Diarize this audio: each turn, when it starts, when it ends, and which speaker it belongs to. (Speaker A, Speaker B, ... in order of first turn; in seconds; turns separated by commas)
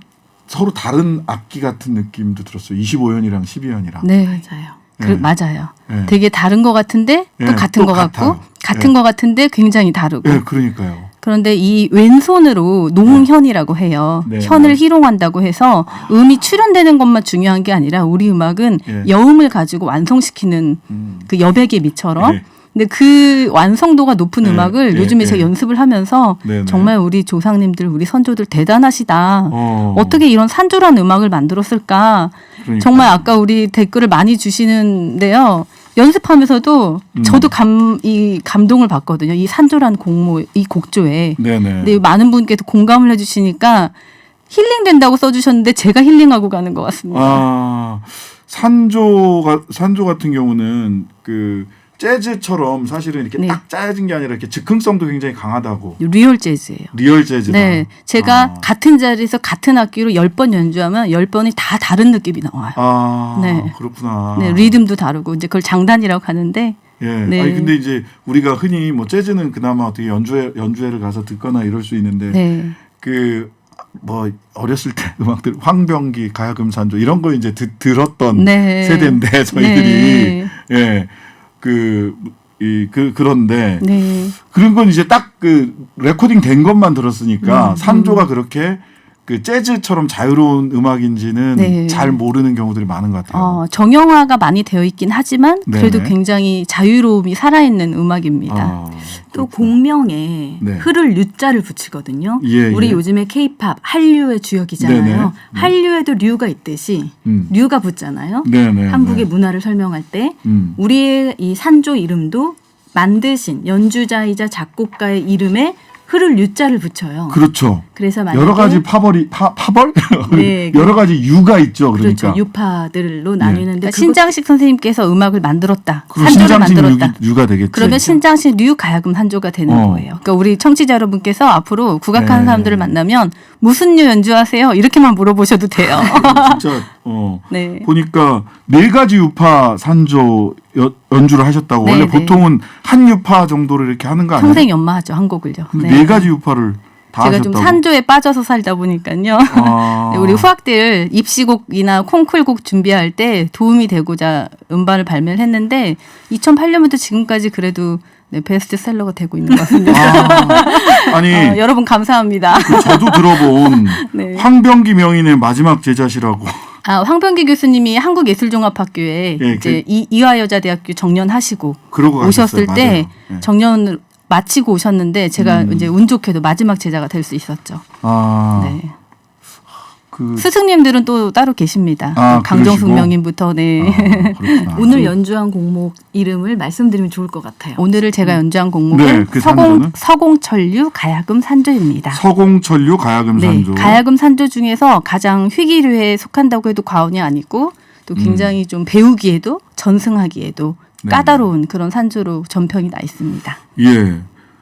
Speaker A: 0.5-4.1, Speaker B: 4.0-4.5, Speaker C: 4.3-4.8, Speaker A: 5.0-5.3, Speaker B: 5.0-10.4, Speaker A: 5.9-6.2, Speaker A: 7.4-8.9, Speaker A: 10.2-11.1, Speaker B: 11.2-43.9, Speaker A: 14.2-14.8, Speaker A: 20.9-21.3, Speaker A: 22.2-22.4, Speaker A: 24.4-25.5, Speaker A: 26.4-26.9, Speaker A: 29.5-30.2, Speaker A: 32.6-33.3, Speaker A: 37.1-37.5, Speaker A: 41.4-42.0, Speaker B: 44.5-47.4, Speaker A: 47.1-56.0, Speaker B: 56.0-56.9, Speaker A: 56.9-58.7, Speaker B: 57.5-62.8, Speaker A: 62.8-64.8, Speaker B: 63.3-63.7, Speaker B: 64.3-67.7, Speaker A: 67.0-72.4, Speaker B: 72.3-72.8, Speaker A: 73.0-93.6, Speaker B: 78.3-80.5, Speaker B: 83.8-84.3, Speaker B: 87.4-88.3, Speaker B: 91.5-92.2, Speaker B: 93.3-98.8, Speaker A: 95.7-96.2, Speaker A: 98.5-99.8, Speaker C: 99.3-117.4, Speaker A: 100.6-100.9, Speaker A: 102.4-103.0, Speaker A: 104.8-105.7, Speaker A: 107.2-107.5, Speaker A: 108.4-109.3, Speaker A: 110.5-110.8, Speaker A: 117.3-122.4, Speaker C: 118.0-118.8, Speaker C: 120.3-121.0, Speaker C: 122.0-124.3, Speaker A: 123.4-123.7, Speaker B: 123.8-127.2, Speaker A: 126.1-128.2, Speaker B: 127.7-136.6, Speaker A: 129.7-130.1, Speaker A: 132.1-132.9, Speaker A: 135.8-144.7, Speaker B: 137.5-137.9, Speaker B: 141.8-142.4, Speaker B: 144.4-146.3, Speaker A: 145.7-147.8, Speaker B: 147.2-164.5, Speaker A: 149.5-150.5, Speaker C: 159.7-160.7, Speaker A: 159.9-161.6, Speaker A: 162.5-166.7, Speaker B: 166.8-177.8, Speaker A: 169.4-169.8, Speaker A: 171.9-173.5, Speaker A: 175.4-175.9, Speaker A: 178.0-178.8, Speaker B: 178.6-178.9, Speaker A: 180.1-180.5, Speaker B: 180.4-185.1, Speaker A: 182.2-183.2, Speaker A: 183.8-185.1, Speaker C: 184.8-187.8, Speaker B: 187.8-192.2, Speaker A: 188.9-189.9, Speaker A: 192.1-194.0, Speaker B: 193.4-203.6, Speaker A: 198.2-198.5, Speaker A: 201.0-201.5, Speaker A: 203.8-204.3